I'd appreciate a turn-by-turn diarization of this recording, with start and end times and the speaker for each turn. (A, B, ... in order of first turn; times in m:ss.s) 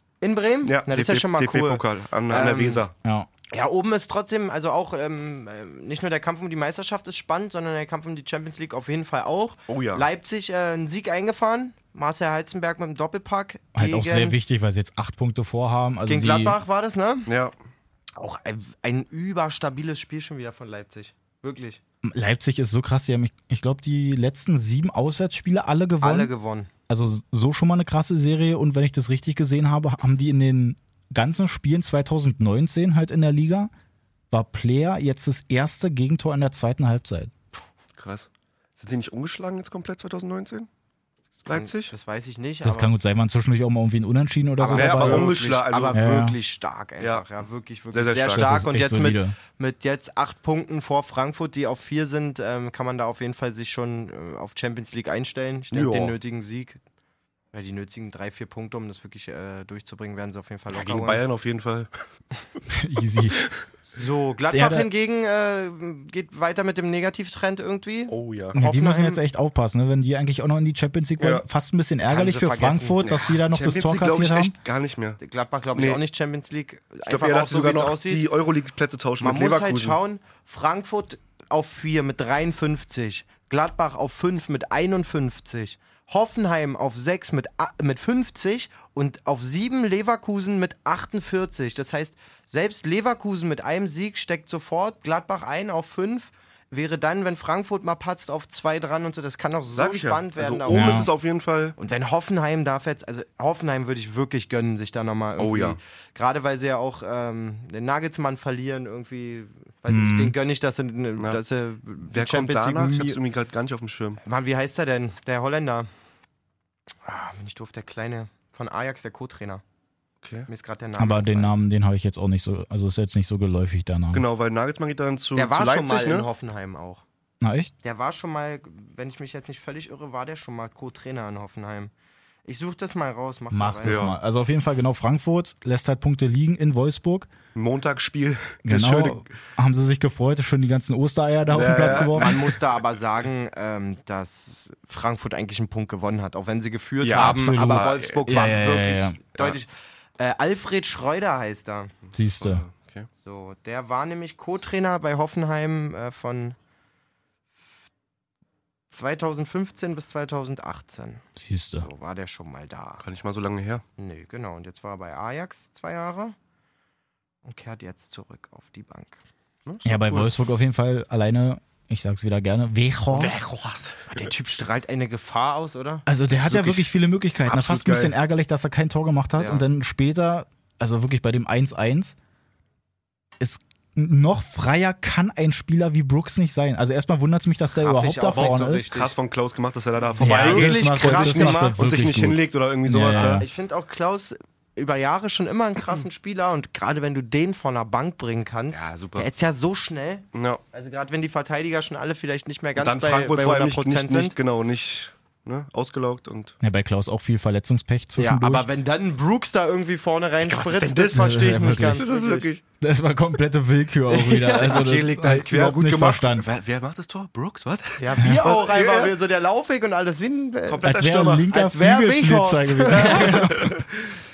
0:00.2-0:02.8 A
0:00.6-0:02.9 B
0:03.5-0:14.4 A
0:09.7-0:10.0 B
0:13.8-0:16.6 C
0:16.1-0:17.3 A
0:17.3-0:17.5 B
0:18.2-0:21.8 A
0:22.0-0:26.3 C
0:26.0-0:26.7 A
0:26.9-0:33.7 C
0:34.3-0:37.3 C
0:38.0-0:40.7 B
0:41.4-0:41.9 B
0:41.5-0:42.9 A
0:42.6-0:45.3 C
0:44.6-0:56.8 A
0:44.7-0:46.2 B
0:45.9-0:46.4 C
0:47.9-0:48.6 B
0:48.3-0:49.4 C
0:55.7-0:56.2 B
0:57.5-1:01.2 A
1:00.7-1:01.9 B
1:02.7-1:03.4 C
1:03.9-1:09.2 A
1:04.5-1:04.9 C
1:08.1-1:08.6 B
1:08.5-1:14.6 C
1:11.2-1:11.4 B
1:12.1-1:13.1 A
1:13.0-1:15.2 B
1:15.2-1:18.2 A
1:15.8-1:16.0 B
1:17.1-1:20.0 B
1:19.2-1:41.0 A
1:39.8-1:41.8 B
1:40.7-1:41.1 C
1:41.8-1:53.2 A
1:45.4-1:45.8 B
1:49.9-1:50.4 C
1:52.1-1:54.2 B
1:54.2-1:55.9 A
1:57.0-1:59.6 A
2:00.2-2:00.5 B
2:00.5-2:01.6 A
2:01.0-2:04.2 C
2:04.1-2:06.3 B
2:05.4-2:07.0 A
2:07.4-2:07.7 C
2:07.8-2:11.9 A
2:12.4-2:14.1 A
2:13.5-2:17.3 C
2:13.8-2:14.2 B
2:17.6-2:19.2 B
2:18.6-2:22.4 C
2:21.5-2:22.6 B
2:21.6-2:31.9 A
2:27.0-2:28.6 B
2:27.1-2:29.2 C
2:32.1-2:32.6 C
2:32.4-2:33.1 B
2:33.2-2:36.6 A
2:38.9-2:41.2 A
2:41.4-2:41.9 C
2:41.8-2:43.0 A
2:43.0-2:43.8 B
2:44.0-2:46.4 A
2:47.4-2:49.2 A
2:49.7-2:50.3 B
2:49.8-2:53.4 C
2:53.1-2:54.0 B
2:54.1-2:56.1 A
2:56.1-3:02.2 C
2:56.3-2:56.9 B
2:57.4-2:58.1 B
2:59.4-2:59.6 A
3:03.4-3:08.9 C
3:07.6-3:09.1 A
3:08.3-3:13.4 B
3:10.2-3:11.8 A
3:10.2-3:13.5 C
3:13.1-3:24.4 A
3:18.7-3:19.3 B
3:20.3-3:20.6 B
3:22.8-3:26.6 B
3:26.6-3:28.7 C
3:28.2-3:32.5 A
3:30.4-3:32.6 B
3:31.1-3:32.0 C
3:32.8-3:36.5 C
3:34.2-3:34.8 A
3:34.4-3:39.2 B
3:38.0-3:40.9 A
3:38.2-3:38.4 C
3:40.7-3:41.5 B
3:40.8-3:43.9 C
3:41.5-3:43.5 A
3:42.9-3:43.8 B